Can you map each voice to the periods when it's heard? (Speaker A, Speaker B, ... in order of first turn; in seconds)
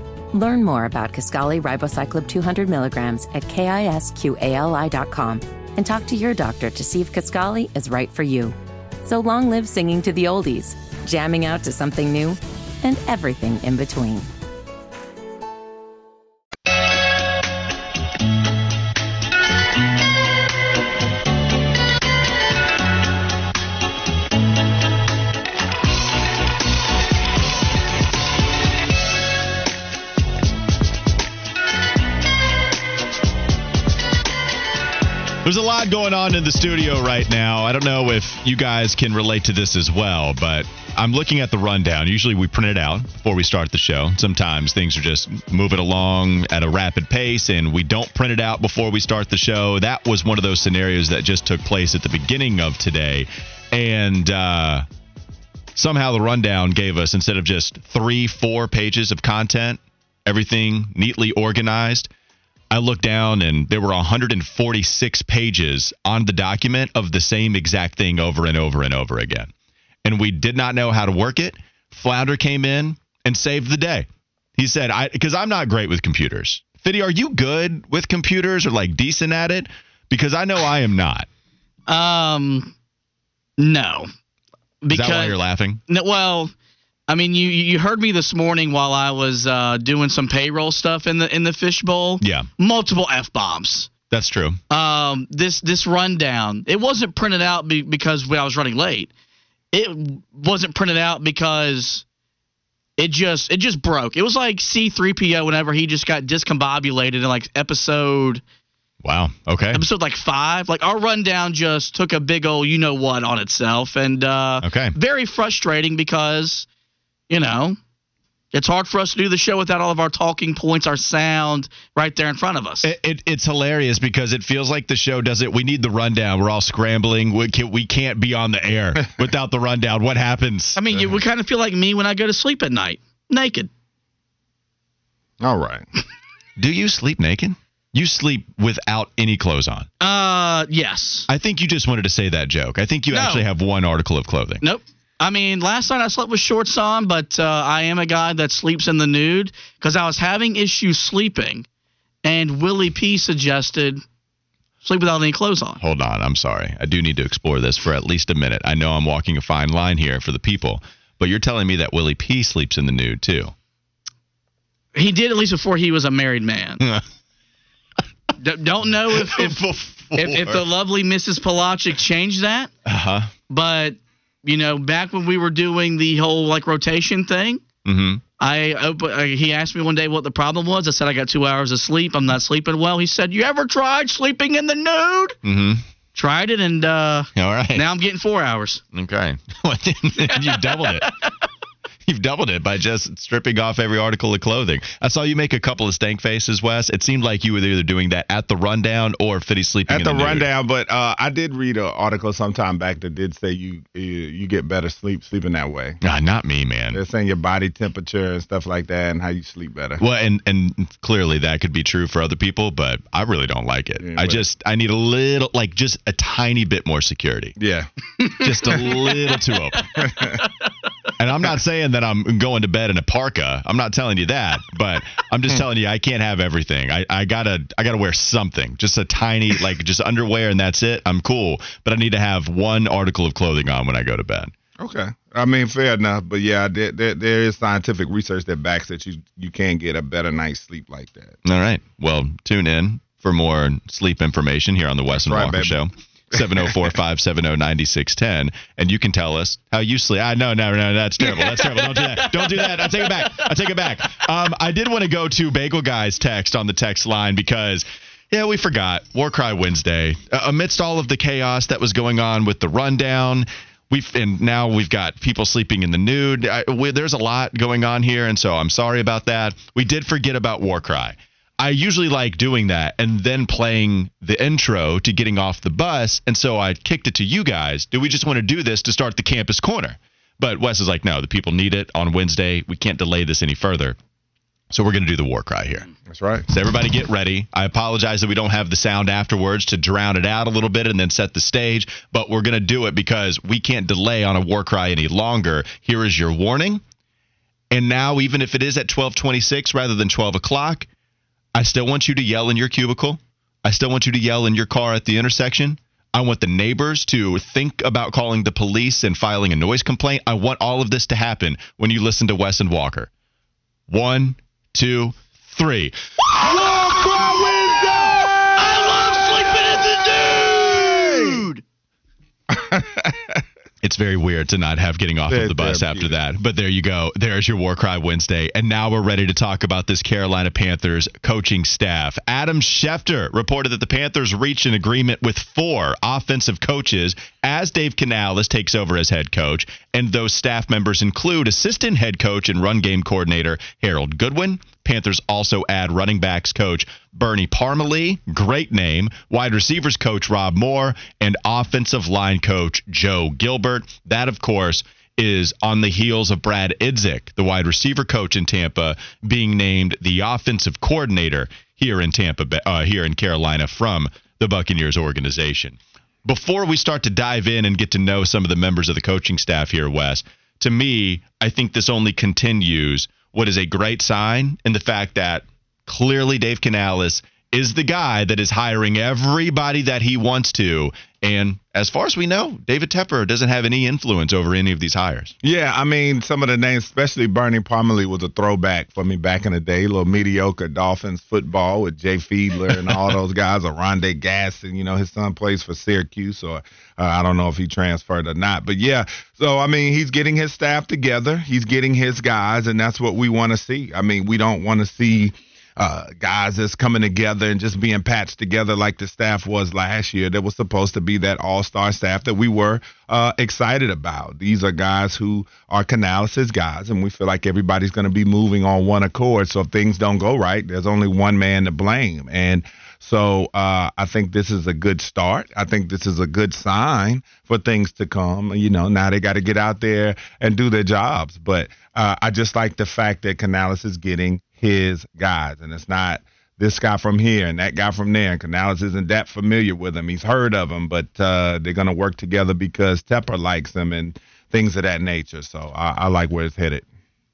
Speaker A: 0.3-14.3
Speaker B: 35.4-54.9, 55.8-62.1, 62.7-69.5, 70.0-81.3, 84.9-85.8, 92.2-92.5, 94.1-94.6, 109.0-109.8, 114.6-115.0, 122.8-130.8, 136.6-139.9, 141.3-144.6, 155.8-163.5, 169.1-170.7, 172.9-173.3, 177.8-178.2, 185.4-185.8, 187.4-187.8, 188.9-191.1, 192.1-200.5, 206.0-207.0, 210.0-217.6, 218.4-220.1, 221.2-234.5, 241.4-284.0, 284.7-285.9, 286.5-296.8, 297.7-300.9, 301.6-313.1, 313.9-315.9, 323.8-385.3
Speaker C: 81.9-82.7, 83.6-84.1, 84.8-85.4, 85.9-86.5, 87.1-93.9, 94.7-99.1, 99.7-102.0, 103.0-108.4, 109.7-116.7, 117.3-117.8, 118.5-122.9, 130.8-133.7, 140.0-141.3, 143.1-143.5, 144.6-151.7, 152.2-154.0, 154.8-155.8, 164.9-166.8, 168.4-169.6, 170.2-172.7, 173.5-177.6, 178.4-185.4, 186.2-188.8, 190.2-191.3, 218.2-219.3, 220.0-220.4, 251.2-253.7, 316.4-321.6
Speaker D: 130.9-131.2, 135.4-135.9, 199.9-206.0, 206.9-210.0, 214.0-214.4, 217.6-217.9, 220.0-220.4, 234.8-241.4, 245.2-245.8, 286.1-286.4, 316.6-316.9, 320.9-321.4, 322.5-323.4, 325.3-326.1, 385.4-446.9